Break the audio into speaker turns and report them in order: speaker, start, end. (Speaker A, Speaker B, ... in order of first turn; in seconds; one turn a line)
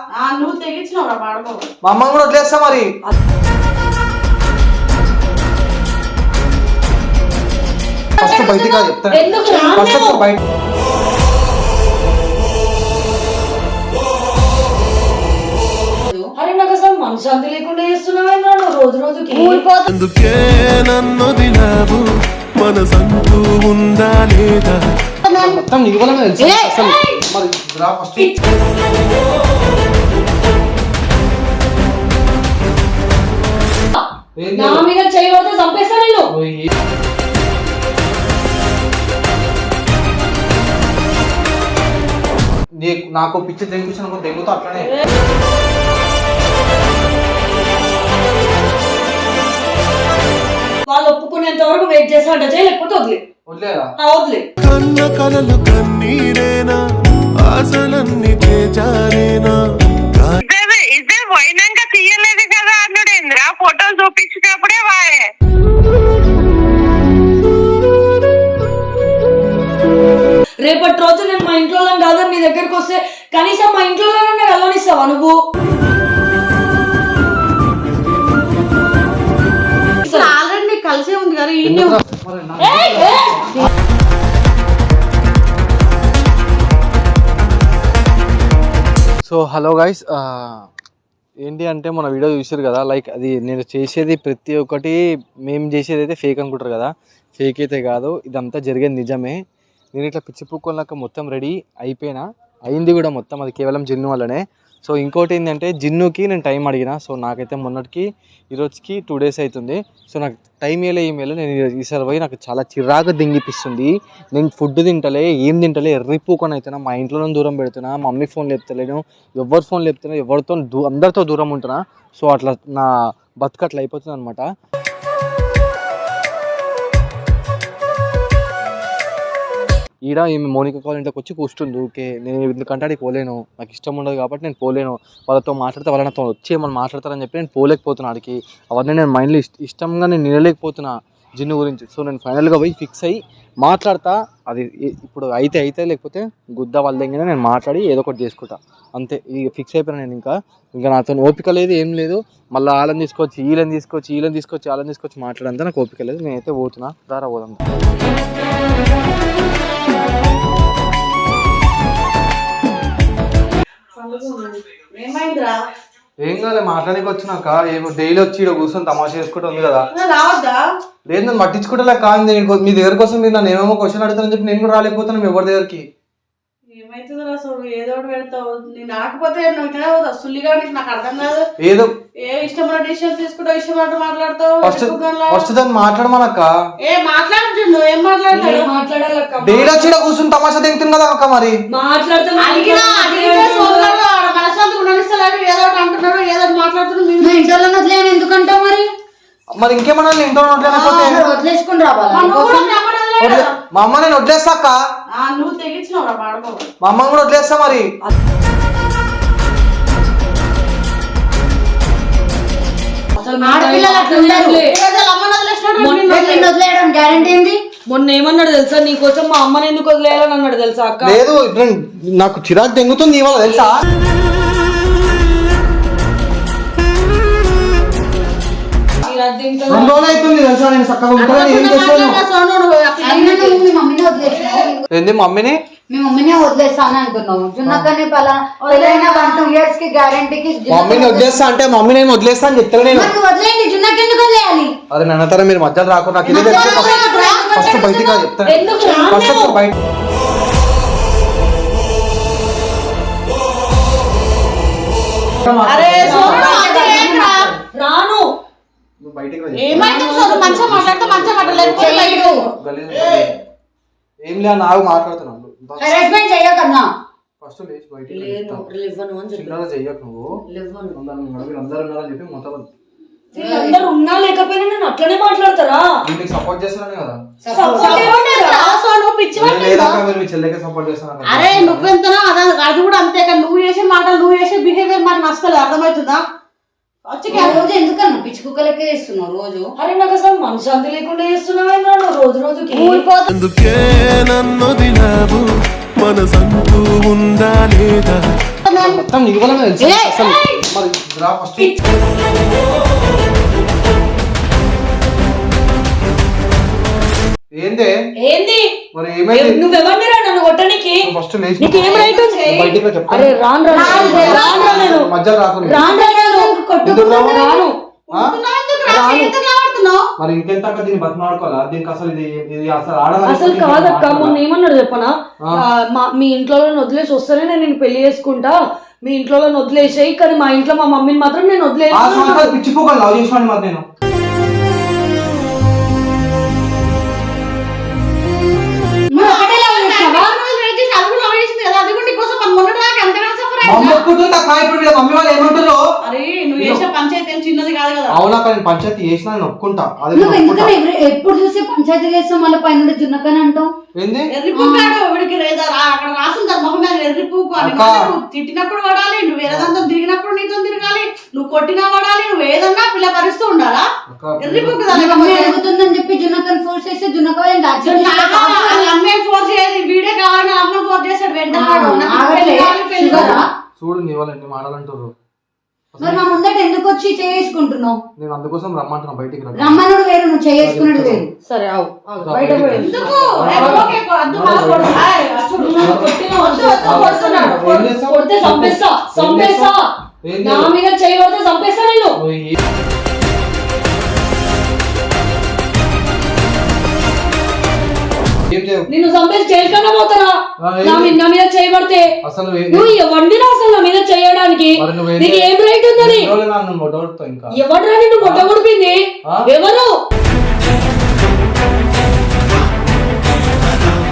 Speaker A: 0.1-1.6
Speaker B: 1.8-2.9
Speaker B: 8.2-10.4
Speaker A: 8.2-8.7
Speaker C: 9.1-10.2
Speaker D: 16.1-16.3
Speaker C: 16.4-19.6
Speaker A: 19.3-19.9
Speaker E: 19.9-22.1
Speaker E: 22.6-24.8
Speaker A: 25.2-25.6
Speaker B: 25.4-28.4
Speaker A: 26.4-26.9
Speaker B: 34.4-34.9
Speaker C: 34.5-36.3
Speaker B: 36.3-36.7
Speaker B: 42.8-44.9
Speaker C: 50.9-53.2
Speaker B: 53.5-53.9
Speaker C: 54.0-54.5
Speaker E: 54.6-56.8
Speaker E: 57.4-59.6
Speaker E: 60.1-60.4
Speaker F: 60.4-65.2
Speaker C: 70.7-75.4
Speaker C: 80.1-80.3
Speaker A: 80.1-82.0
Speaker B: 81.6-83.6
Speaker C: 82.6-83.4
Speaker B: 89.2-90.7
Speaker B: 91.4-99.4
Speaker B: 99.9-124.5
Speaker B: 130.1-157.6
Speaker A: 163.9-165.6
Speaker B: 166.2-169.9
Speaker A: 169.9-170.6
Speaker B: 171.1-175.8
Speaker A: 176.7-181.4
Speaker B: 181.6-181.9
Speaker A: 182.2-185.5
Speaker B: 184.6-186.5
Speaker A: 186.8-188.7
Speaker C: 188.3-189.8
Speaker B: 189.4-191.6
Speaker C: 191.7-194.0
Speaker A: 192.4-197.4
Speaker D: 197.2-198.9
Speaker B: 199.6-201.2
Speaker A: 200.6-201.1
Speaker D: 200.8-202.8
Speaker A: 202.1-203.5
Speaker B: 203.2-204.8
Speaker A: 205.1-206.6
Speaker B: 206.8-207.8
Speaker C: 213.2-214.8
Speaker D: 213.4-214.6
Speaker A: 214.6-216.5
Speaker C: 215.8-216.2
Speaker D: 216.1-217.6
Speaker C: 217.9-221.2
Speaker B: 221.0-223.8
Speaker C: 229.1-230.0
Speaker B: 229.7-232.2
Speaker A: 231.2-233.6
Speaker D: 233.0-234.9
Speaker A: 234.3-234.7
Speaker B: 234.9-235.6
Speaker D: 235.9-241.4
Speaker A: 238.6-239.5
Speaker B: 240.7-243.1
Speaker D: 242.9-244.8
Speaker B: 244.9-249.8
Speaker D: 246.3-248.2
Speaker A: 246.3-247.5
Speaker C: 248.4-249.6
Speaker B: 255.4-256.6
Speaker A: 255.7-257.6
Speaker D: 256.1-257.6
Speaker C: 256.1-256.6
Speaker C: 257.7-258.3
Speaker B: 259.0-259.9
Speaker A: 259.6-262.4
Speaker C: 259.9-260.8
Speaker B: 260.6-262.0
Speaker D: 261.8-262.5
Speaker B: 262.6-263.3
Speaker B: 264.2-266.1
Speaker D: 265.8-266.9
Speaker B: 267.4-268.6
Speaker C: 268.1-269.6
Speaker B: 269.3-270.4
Speaker C: 270.5-271.0
Speaker B: 270.9-272.7
Speaker C: 273.3-275.9
Speaker D: 273.4-273.8
Speaker B: 276.0-277.2
Speaker D: 277.4-278.1
Speaker C: 277.5-278.7
Speaker A: 277.8-280.0
Speaker B: 279.4-281.9
Speaker A: 281.2-286.2
Speaker A: 287.1-287.6
Speaker D: 287.3-289.7
Speaker C: 289.8-293.1
Speaker A: 292.7-293.3
Speaker E: 293.3-295.4
Speaker E: 296.0-298.2
Speaker A: 298.6-299.0
Speaker B: 298.8-301.7
Speaker A: 299.8-300.2
Speaker B: 307.6-307.9
Speaker C: 308.2-308.7
Speaker B: 308.9-309.6
Speaker C: 309.3-311.1
Speaker B: 311.0-315.8
Speaker C: 311.6-312.6
Speaker A: 311.7-312.8
Speaker C: 313.1-315.1
Speaker A: 313.7-315.0
Speaker D: 313.8-314.9
Speaker C: 315.6-317.7
Speaker A: 315.9-316.3
Speaker D: 316.0-316.5
Speaker B: 316.8-318.3
Speaker A: 318.1-320.1
Speaker C: 318.9-319.3
Speaker B: 320.2-324.4
Speaker C: 323.2-332.5
Speaker B: 331.9-333.9
Speaker D: 339.1-340.2
Speaker A: 339.2-344.0
Speaker B: 343.6-345.8
Speaker A: 346.0-348.2
Speaker B: 348.1-350.7
Speaker D: 350.1-353.7
Speaker B: 354.0-354.3
Speaker A: 354.3-363.9
Speaker D: 354.5-354.9
Speaker B: 357.6-358.0
Speaker B: 359.5-359.8
Speaker B: 364.1-364.8
Speaker A: 364.4-365.6
Speaker D: 364.9-368.9
Speaker A: 367.8-373.4
Speaker D: 371.5-373.5
Speaker B: 373.1-375.1
Speaker B: 375.9-376.2
Speaker D: 376.0-378.0
Speaker B: 378.2-379.8
Speaker D: 379.6-381.3
Speaker B: 380.6-381.2
Speaker C: 381.4-383.9
Speaker B: 382.2-385.1
Speaker A: 382.7-387.6
Speaker C: 385.6-389.8
Speaker B: 385.8-386.1
Speaker B: 386.8-389.7
Speaker B: 390.2-390.7
Speaker C: 390.4-392.2
Speaker B: 392.2-392.6
Speaker B: 398.5-398.9
Speaker C: 398.9-402.1
Speaker B: 400.6-401.2
Speaker B: 402.2-402.9
Speaker C: 402.7-406.3
Speaker B: 404.8-407.6
Speaker C: 407.5-409.9
Speaker B: 408.2-408.5